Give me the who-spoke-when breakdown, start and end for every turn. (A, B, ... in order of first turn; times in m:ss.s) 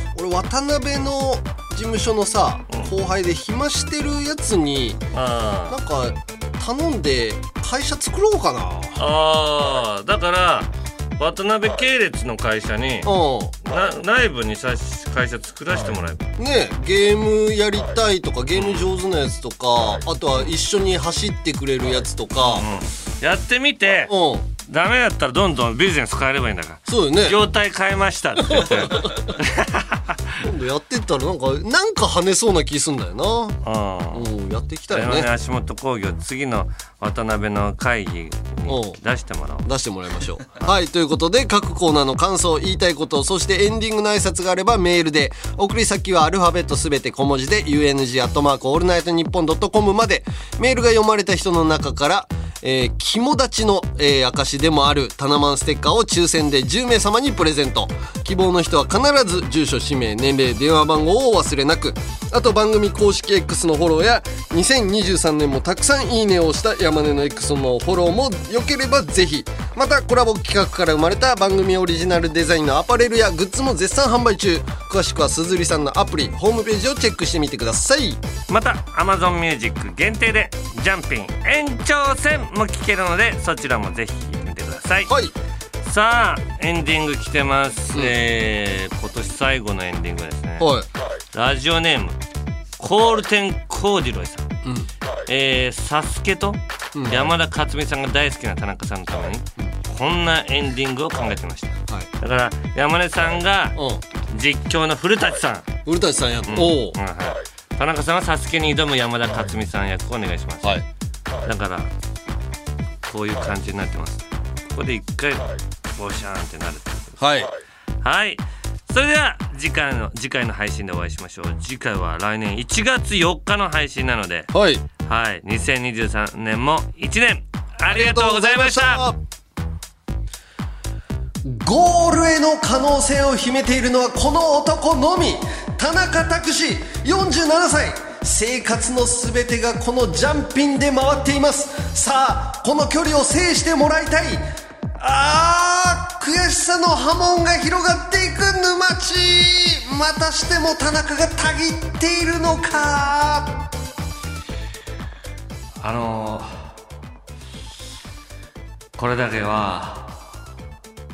0:00.1-0:05.0 A
0:05.1-0:05.8 B
0:05.7-0:09.0 A
0:09.0-0:13.1 B
0:13.0-0:13.6 A
0:13.6-0:16.3 B
0:16.4-0:22.7 A
0:18.5-0:18.9 B
0:22.4-0:30.4 B
0:24.1-0:24.5 A
0:26.9-0:27.4 A
0:28.5-0:29.3 A
0:30.4-0:33.6 A
0:33.6-0:34.3 B
0:34.1-0:35.3 A
0:34.9-0:39.7 B
0:38.7-0:39.0 A
0:39.6-1:18.2 A
1:18.5-1:25.1 B
1:25.1-1:25.3 A
1:25.8-1:30.7 B
1:30.6-1:30.9 A
1:31.3-1:32.2 B
1:32.8-1:34.5 B
1:34.6-1:34.9 A
1:35.3-1:45.7 B
1:36.9-1:37.4 A
1:43.7-1:44.0 A
1:45.8-1:47.0 A
1:46.5-1:50.7 B
1:51.4-1:51.9 B
1:53.0-1:57.2 B
1:57.2-1:57.5 A
1:58.0-2:04.5 B
2:04.5-2:04.8 A
2:05.0-2:09.1 B
2:07.9-2:09.2 A
2:11.4-2:24.4 A
2:25.0-2:33.7 A
2:35.8-2:36.7 B
2:39.0-2:40.1 B